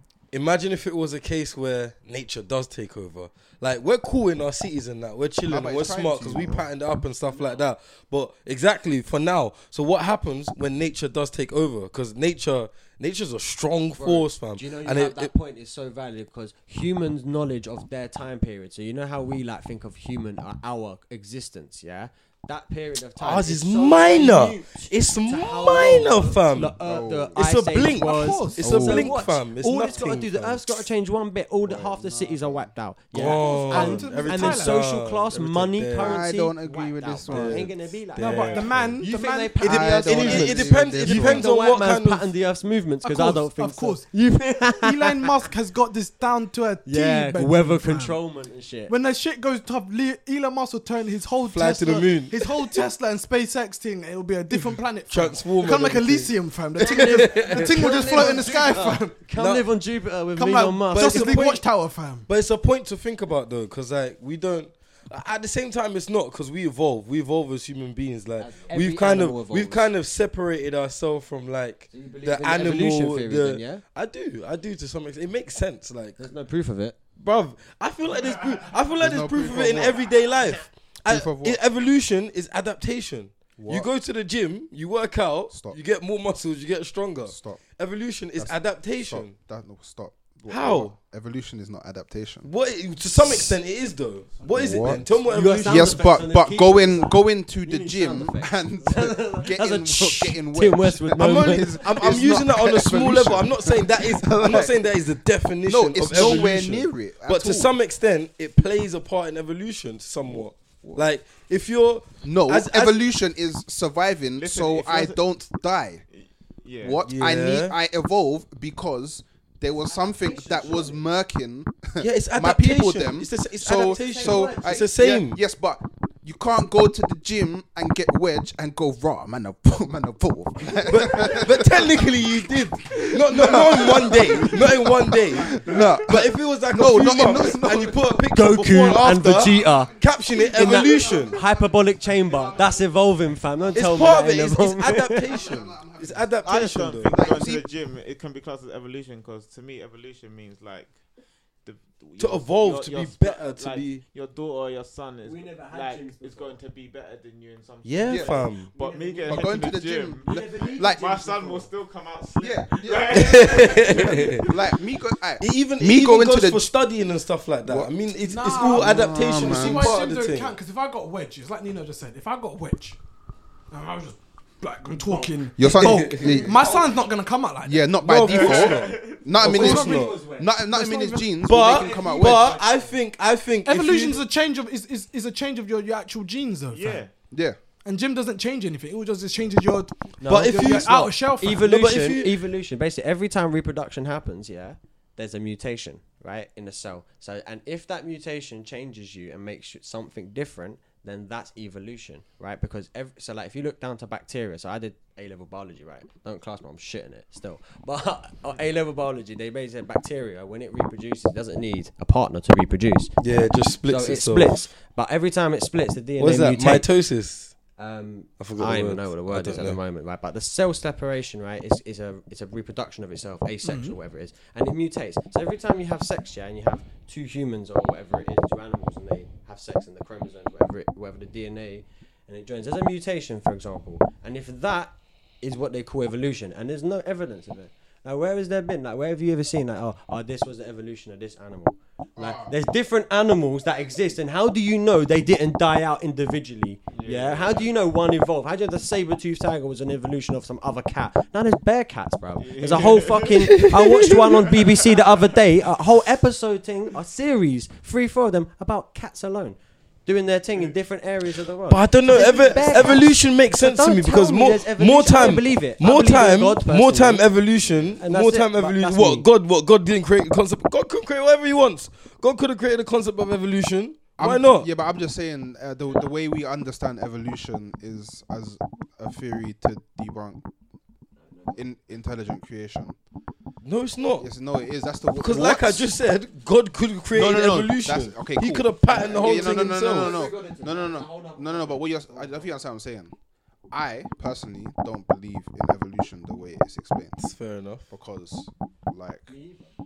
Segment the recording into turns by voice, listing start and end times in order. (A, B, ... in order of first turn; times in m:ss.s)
0:00.3-0:15.3 A
0:05.4-0:06.7 B
0:14.0-0:45.2 C
0:23.2-0:26.8 A
0:26.8-0:27.4 B
0:27.3-0:30.6 A
0:27.9-0:28.8 D
0:28.6-0:29.3 B
0:29.8-0:30.2 B
0:31.6-0:32.7 B
0:33.1-0:36.2 A
0:33.2-0:34.8 D
0:36.0-0:37.7 B
0:37.3-0:39.1 A
0:38.2-0:40.1 D
0:39.6-0:41.5 B
0:39.6-0:42.3 A
0:43.0-0:44.1 D
0:44.7-0:48.2 D
0:46.8-0:48.9 C
0:48.9-0:59.2 D
0:51.5-0:52.4 A
0:54.6-0:58.5 A
0:56.8-1:01.6 C
0:59.3-0:59.7 A
1:00.4-1:02.3 D
1:00.9-1:01.6 A
1:02.3-1:16.3 A
1:08.4-1:09.8 C
1:11.9-1:13.8 C
1:16.2-1:17.0 C
1:17.2-1:29.4 A
1:19.0-1:20.1 B
1:21.1-1:21.6 B
1:23.6-1:23.9 B
1:25.5-1:25.8 B
1:27.3-1:27.6 B
1:28.4-1:32.5 B
1:30.5-1:30.9 A
1:32.4-1:36.0 A
1:33.2-1:33.5 B
1:34.4-1:35.0 B
1:35.3-1:41.8 C
1:35.6-1:44.8 B
1:41.2-1:53.0 A
1:45.6-1:47.7 B
1:50.2-1:51.1 B
1:52.2-1:56.0 B
1:54.4-1:55.2 E
1:56.1-1:57.0 E
1:56.8-2:18.2 B
1:57.0-1:57.8 A
1:59.8-2:01.0 C
2:02.0-2:05.4 A
2:03.7-2:04.9 C
2:10.8-2:21.4 A
2:18.3-2:19.9 C
2:19.0-2:22.9 B
2:20.5-2:25.3 C
2:23.6-2:24.2 B
2:23.7-2:27.2 A
2:25.1-2:27.7 B
2:26.4-2:31.0 E
2:31.6-2:44.6 E
2:32.2-2:34.1 A
2:35.2-2:36.6 C
2:37.8-2:38.8 A
2:38.1-2:38.4 B
2:38.2-2:39.7 C
2:39.2-2:41.1 B
2:40.2-2:41.7 C
2:42.4-2:46.7 B
2:43.1-2:44.5 A
2:45.4-2:50.5 A
2:47.6-2:47.9 B
2:48.2-2:53.0 D
2:48.5-2:50.0 B
2:53.7-2:57.9 D
2:55.6-2:56.7 B
2:55.6-2:56.6 A
2:57.6-3:02.6 B
2:58.0-3:00.3 A
2:58.3-2:59.3 E
2:59.4-3:01.5 D
2:59.5-3:00.5 C
3:01.4-3:04.2 A
3:01.6-3:03.0 C
3:03.6-3:07.1 D
3:06.7-3:07.1 E
3:07.3-3:07.6 B
3:07.8-3:11.6 D
3:10.2-3:36.9 C
3:10.2-3:12.4 A
3:33.2-3:34.6 A
3:36.2-3:37.5 A
3:37.8-4:27.2 C
3:38.4-3:39.8 A
3:43.6-3:44.0 D
4:02.2-4:02.5 B
4:06.9-4:07.7 E
4:12.4-4:13.6 E
4:13.5-4:14.2 A
4:14.4-4:14.7 E
4:21.6-4:34.7 A
4:28.0-4:29.2 C
4:34.2-4:40.4 B
4:41.2-4:41.6 C
4:41.5-4:43.0 B
4:43.6-4:44.2 A
4:44.2-4:45.9 B
4:45.1-4:50.2 A
4:47.1-4:53.1 B
4:48.9-4:52.5 C
4:53.7-4:57.2 B
4:57.2-4:57.9 A
4:57.9-4:59.3 B
4:59.3-4:59.7 C